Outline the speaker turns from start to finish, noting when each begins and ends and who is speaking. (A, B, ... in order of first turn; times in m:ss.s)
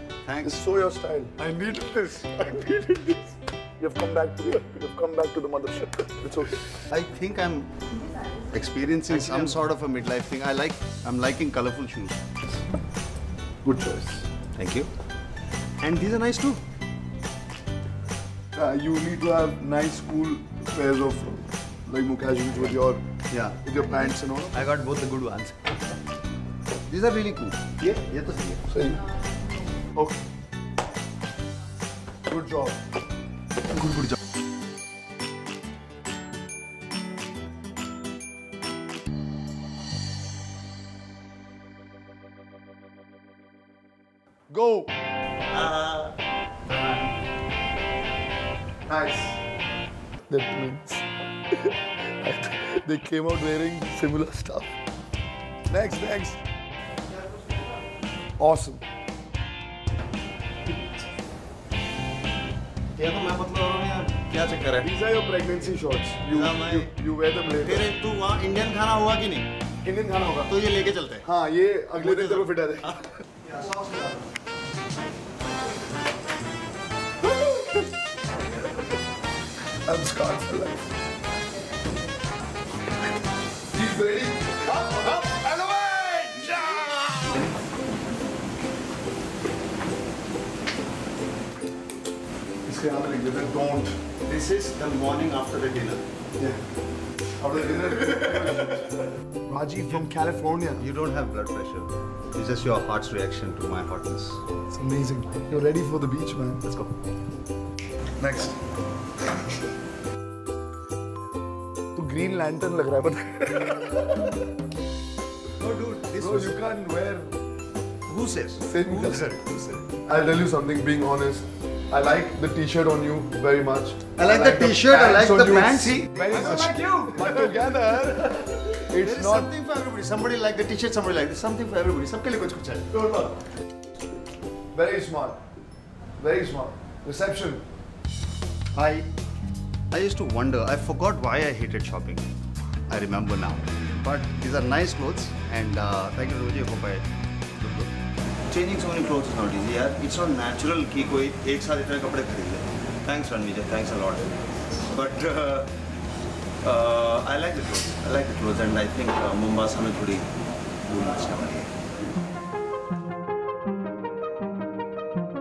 0:00.2-0:00.6 A
0:00.4-0:03.2 B
0:03.8-0:06.6 B
0:06.7-0:12.2 A
0:09.1-0:09.6 B
0:13.6-0:14.3 B
0:14.5-0:14.9 A
0:15.8-0:16.6 A
0:18.5-0:23.0 B
0:22.5-0:22.8 A
0:23.3-0:23.6 A
0:23.6-0:24.7 B
0:24.5-0:25.6 A
0:26.9-0:28.6 A
0:28.7-0:29.0 B
0:32.3-0:32.8 B
0:44.5-0:44.9 B
0:45.5-0:47.1 A
0:48.9-0:49.4 B
0:50.3-0:54.8 B
0:55.7-0:56.4 B
0:57.2-0:57.6 A
0:58.4-0:58.8 B
1:02.9-1:04.9 A
1:04.8-1:07.9 B
1:06.3-1:06.9 A
1:07.6-1:09.5 A
1:09.8-1:10.5 B
1:10.4-1:11.2 A
1:11.2-1:13.0 B
1:12.0-1:14.3 A
1:19.8-1:20.8 B
1:23.7-1:25.4 B
1:24.8-1:27.4 A
1:26.5-1:27.0 B
1:32.6-1:34.0 B
1:34.2-1:36.0 A
1:37.4-1:38.9 B
1:39.4-1:40.8 B
1:39.8-1:40.1 A
1:40.8-1:44.4 A
1:44.7-1:46.6 B
1:46.6-1:46.9 A
1:48.2-1:48.6 B
1:51.9-1:54.3 B
1:55.6-1:56.6 A
1:56.2-1:57.4 B
1:58.1-1:59.6 A
1:58.6-2:09.5 B
2:04.2-2:12.9 A
2:12.9-2:13.3 B
2:14.7-2:15.4 B
2:16.2-2:17.6 B
2:18.7-2:19.1 A
2:19.9-2:22.3 A
2:22.9-2:27.1 A
2:27.6-2:27.9 A
2:28.5-2:34.4 A
2:34.9-2:35.7 A
2:36.6-2:40.3 A
2:40.9-2:41.7 A